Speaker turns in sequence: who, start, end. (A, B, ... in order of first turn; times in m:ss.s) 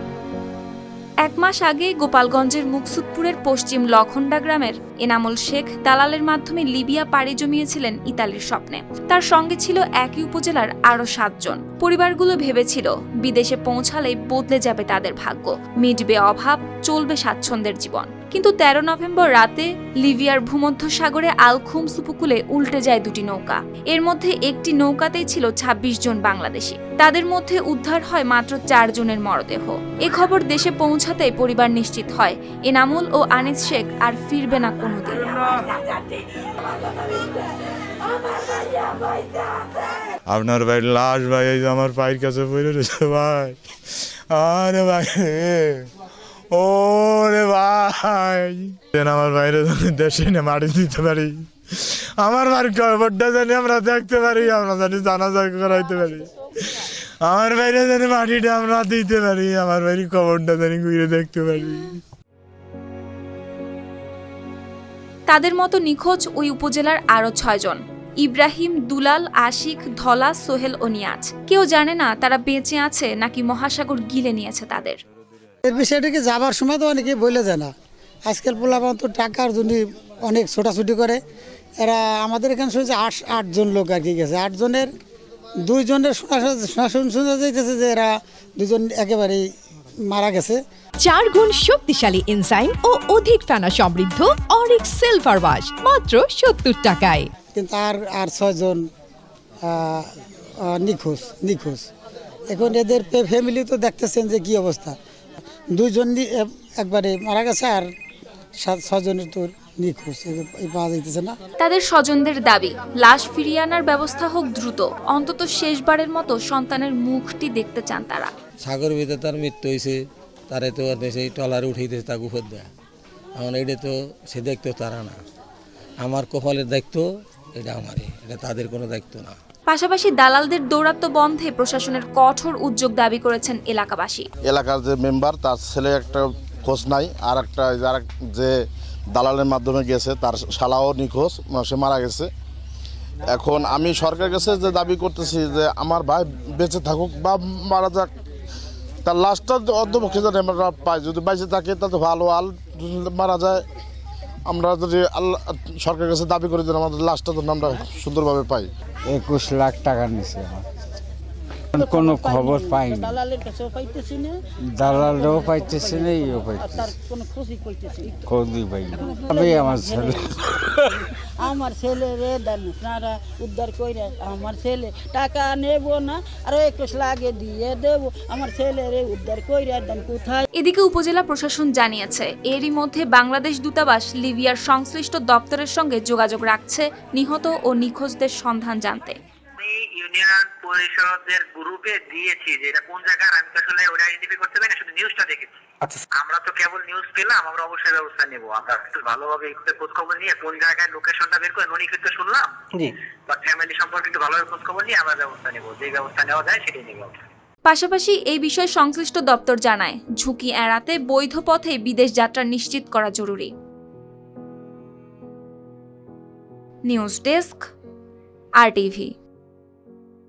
0:01.2-0:35.5 A
0:40.3-0:43.6 B
0:44.3-0:45.9 B
0:46.5-0:51.5 B
0:52.2-0:56.3 B
0:57.2-1:02.0 B
1:05.3-1:15.0 A
1:15.6-1:17.7 C
1:18.3-1:21.2 C
1:21.8-1:24.9 C
1:25.7-1:29.5 C
1:30.1-1:30.6 C
1:31.0-1:37.3 D
1:37.6-1:38.8 C
1:39.7-1:40.1 C
1:40.7-1:41.9 C
1:42.5-1:44.9 C
1:45.8-1:47.9 C
1:48.6-1:51.3 C
1:51.6-1:58.3 A
1:58.6-2:02.7 E
2:03.4-2:05.2 E
2:06.0-2:07.0 E
2:07.6-2:09.4 E
2:09.7-2:14.3 A
2:14.5-2:18.5 F
2:19.2-2:22.3 F
2:23.3-2:28.1 F
2:29.0-2:33.6 F
2:34.5-2:38.7 F
2:39.1-2:40.6 G
2:41.7-2:48.2 H
2:41.8-2:43.2 G
2:44.8-2:46.9 G
2:48.3-2:50.7 G
2:48.9-3:00.4 H
3:00.6-3:09.2 A
3:09.6-3:15.6 I
3:16.2-3:22.5 I
3:23.3-3:27.2 I
3:27.7-3:33.5 A
3:36.9-3:37.6 A
3:38.6-3:39.1 A